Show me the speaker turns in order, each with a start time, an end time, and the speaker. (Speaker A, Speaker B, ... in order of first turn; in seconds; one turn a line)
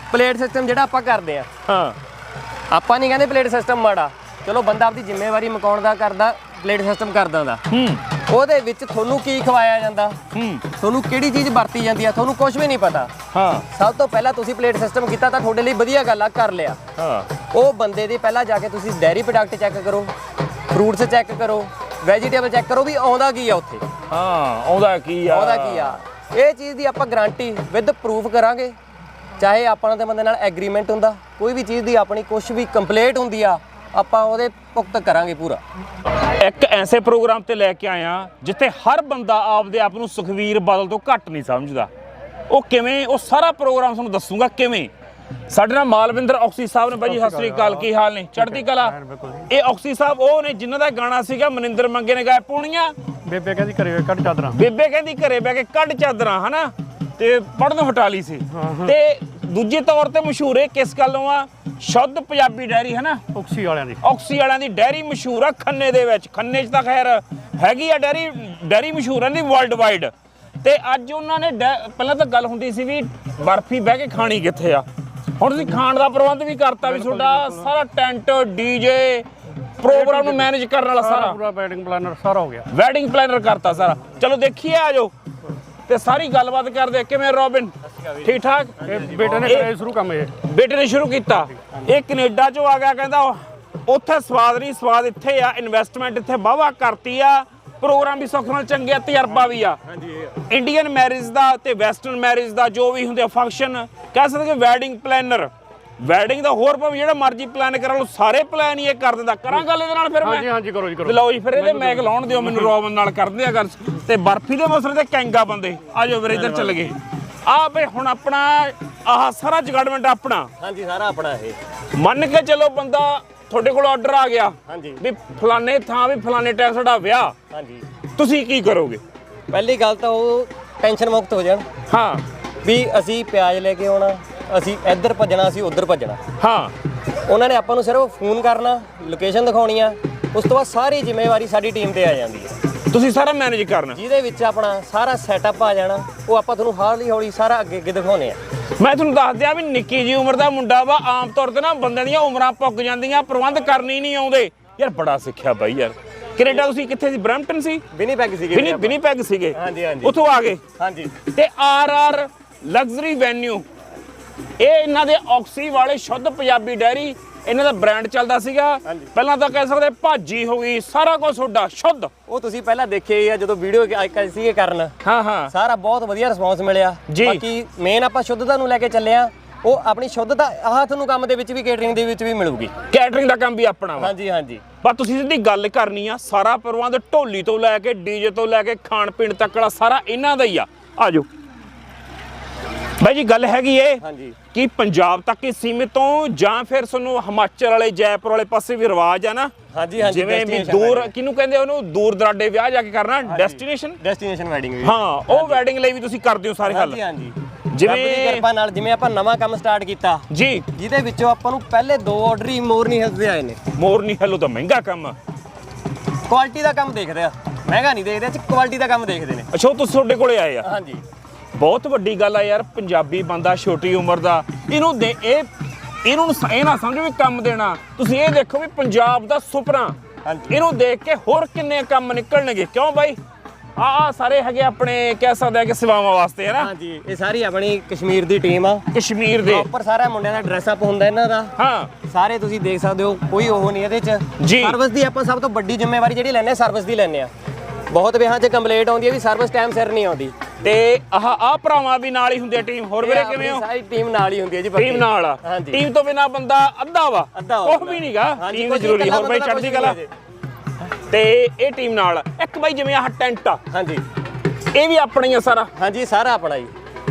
Speaker A: 0.1-1.5
Speaker B: 1.7-2.0
Speaker A: 2.7-7.6
Speaker B: 7.7-8.1
Speaker A: 8.2-10.2
Speaker B: 10.3-10.7
Speaker A: 10.8-13.1
Speaker B: 13.3-13.7
Speaker A: 13.7-16.8
Speaker B: 17.0-17.3
Speaker A: 17.5-20.1
Speaker A: 20.7-23.9
Speaker B: 24.1-25.9
Speaker A: 25.3-28.8
Speaker A: 29.4-35.6
Speaker B: 36.2-41.9
Speaker B: 42.5-44.9
Speaker B: 45.5-53.0
Speaker C: 47.2-47.8
Speaker C: 48.6-49.5
Speaker C: 53.2-54.6
Speaker B: 54.5-63.3
Speaker C: 58.6-58.9
Speaker C: 63.3-64.0
Speaker B: 64.0-70.1
Speaker B: 70.6-74.9
Speaker B: 75.4-79.3
Speaker C: 77.0-77.5
Speaker B: 79.8-81.4
Speaker C: 79.9-80.5
Speaker C: 81.0-82.7
Speaker B: 82.7-85.1
Speaker B: 85.9-89.8
Speaker A: 87.8-89.7
Speaker C: 88.8-90.4
Speaker B: 90.3-99.8
Speaker A: 99.4-100.4
Speaker B: 100.5-120.5
Speaker C: 110.2-112.5
Speaker A: 116.3-116.9
Speaker A: 120.6-121.6
Speaker B: 121.9-127.4
Speaker A: 124.7-125.0
Speaker A: 127.5-127.8
Speaker B: 128.2-129.0
Speaker A: 129.5-131.7
Speaker B: 131.9-132.2
Speaker A: 132.6-136.2
Speaker B: 136.4-136.8
Speaker A: 137.3-142.6
Speaker B: 142.9-144.0
Speaker A: 143.9-148.4
Speaker B: 148.8-157.8
Speaker A: 157.9-158.9
Speaker B: 158.5-160.6
Speaker A: 159.5-160.1
Speaker A: 160.8-161.1
Speaker B: 161.2-163.7
Speaker B: 164.6-172.1
Speaker A: 168.8-169.1
Speaker A: 172.3-174.9
Speaker B: 175.0-175.5
Speaker A: 175.5-182.7
Speaker B: 177.1-177.4
Speaker B: 182.9-184.1
Speaker A: 184.0-184.6
Speaker B: 184.8-191.3
Speaker B: 193.0-204.0
Speaker A: 194.0-194.4
Speaker A: 199.7-201.1
Speaker A: 203.3-205.6
Speaker B: 204.8-207.0
Speaker A: 206.7-213.6
Speaker B: 207.7-208.5
Speaker B: 210.3-210.7
Speaker B: 213.7-215.2
Speaker A: 216.3-219.5
Speaker B: 219.5-220.7
Speaker A: 220.6-221.0
Speaker B: 221.6-225.5
Speaker B: 226.0-230.0
Speaker A: 230.2-230.5
Speaker B: 230.5-233.2
Speaker B: 233.8-236.7
Speaker A: 236.6-238.9
Speaker B: 238.9-239.7
Speaker A: 239.4-241.5
Speaker B: 241.6-241.9
Speaker A: 242.1-247.3
Speaker B: 244.4-244.8
Speaker A: 247.9-250.3
Speaker B: 250.6-253.7
Speaker A: 253.0-255.8
Speaker B: 254.8-260.0
Speaker A: 257.3-260.1
Speaker B: 260.8-263.6
Speaker A: 263.7-264.0
Speaker B: 264.7-265.7
Speaker A: 265.8-266.7